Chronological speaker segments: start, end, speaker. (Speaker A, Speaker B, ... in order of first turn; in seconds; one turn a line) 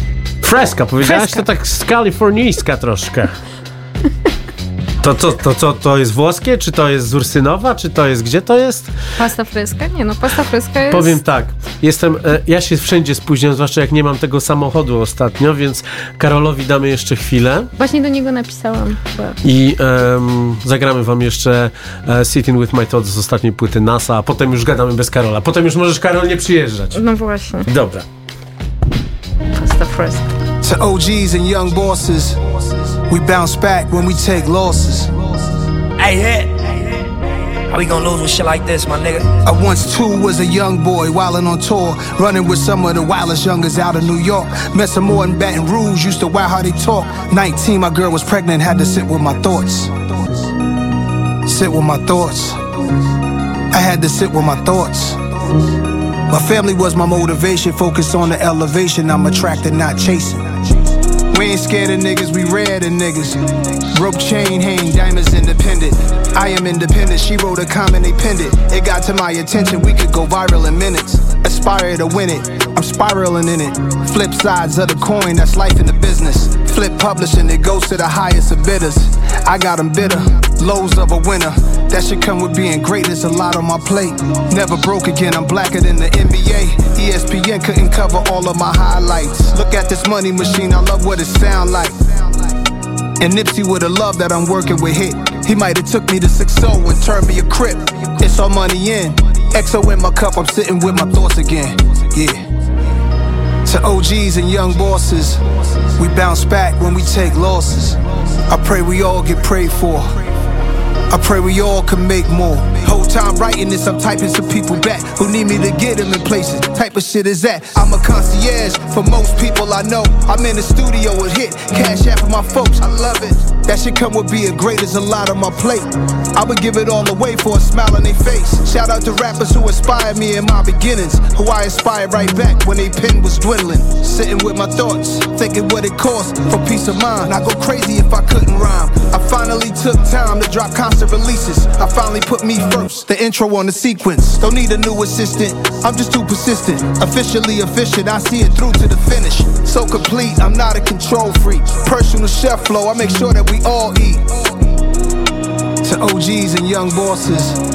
Speaker A: 0.4-3.4
Speaker B: 1.1-1.4
Speaker A: 5.0-8.9
Speaker B: 9.2-11.2
Speaker A: 10.9-17.7
Speaker B: 17.8-19.4
Speaker A: 19.4-27.0
Speaker B: 26.9-27.7
Speaker A: 27.7-28.1
Speaker B: 29.6-30.3
Speaker C: 30.6-32.4
Speaker C: 33.1-35.1
Speaker D: 36.0-36.7
Speaker D: 37.7-39.4
Speaker C: 39.4-50.1
Speaker C: 51.5-52.6
Speaker C: 53.7-55.2
Speaker C: 56.3-60.7
Speaker C: 61.3-92.2
Speaker C: 93.2-102.5
Speaker C: 103.7-105.4
Speaker C: 106.0-110.2
Speaker C: 111.1-154.4
Speaker C: 155.8-157.6